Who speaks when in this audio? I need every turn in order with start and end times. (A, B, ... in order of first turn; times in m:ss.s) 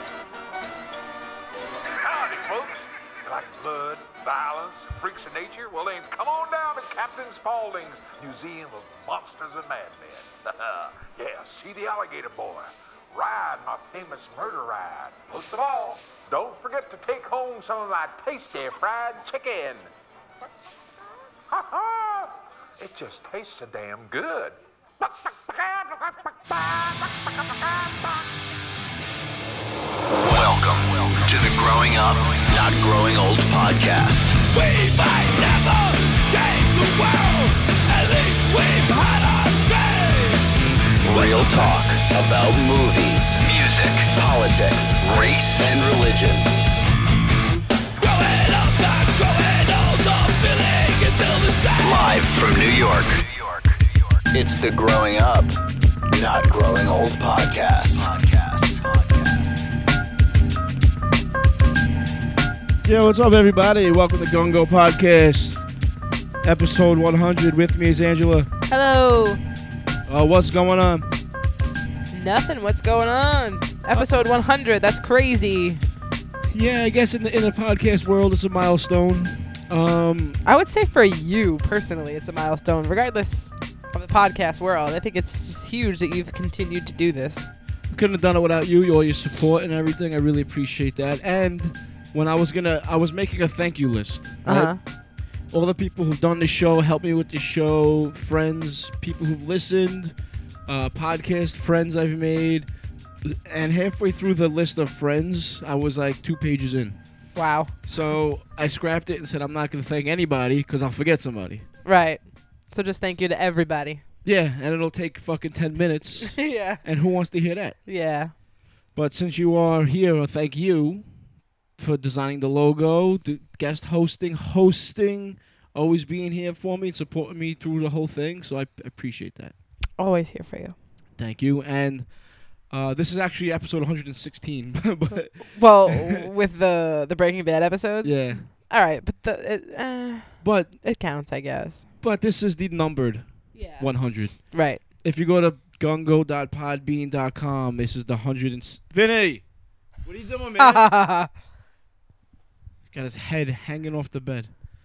0:02.0-0:19.8 A
0:21.5-0:28.1 A
0:30.0-0:34.4 B
0:34.5-0:41.7 C
0:41.0-0:46.5 B
0:45.0-0:45.7 C
0:48.0-0:52.5 C
0:51.8-0:55.6 B
0:56.1-0:59.6 B
1:02.8-1:05.6 D
1:06.4-1:08.5 D
1:08.7-1:09.4 E
1:10.1-1:11.1 D
1:12.1-1:15.8 E
1:16.5-1:20.4 D
1:20.4-1:27.5 E
1:27.9-1:34.7 D
1:34.4-1:34.8 E
1:35.5-1:40.2 D
1:40.7-1:42.7 D
1:43.2-1:47.0 D
1:47.3-1:47.9 E
1:47.9-1:51.6 D
1:51.8-1:54.0 E
1:54.2-1:57.8 D
1:56.4-1:56.8 E
1:57.8-1:58.3 E
1:58.9-2:01.0 D
2:01.8-2:09.5 D
2:10.0-2:10.8 E
2:11.2-2:12.2 D
2:12.7-2:16.2 D
2:15.4-2:21.9 E
2:18.0-2:18.5 D
2:20.4-2:20.8 D
2:22.0-2:29.4 D
2:23.5-2:24.8 E
2:30.0-2:30.9 D
2:30.6-2:31.3 E
2:32.9-2:34.5 D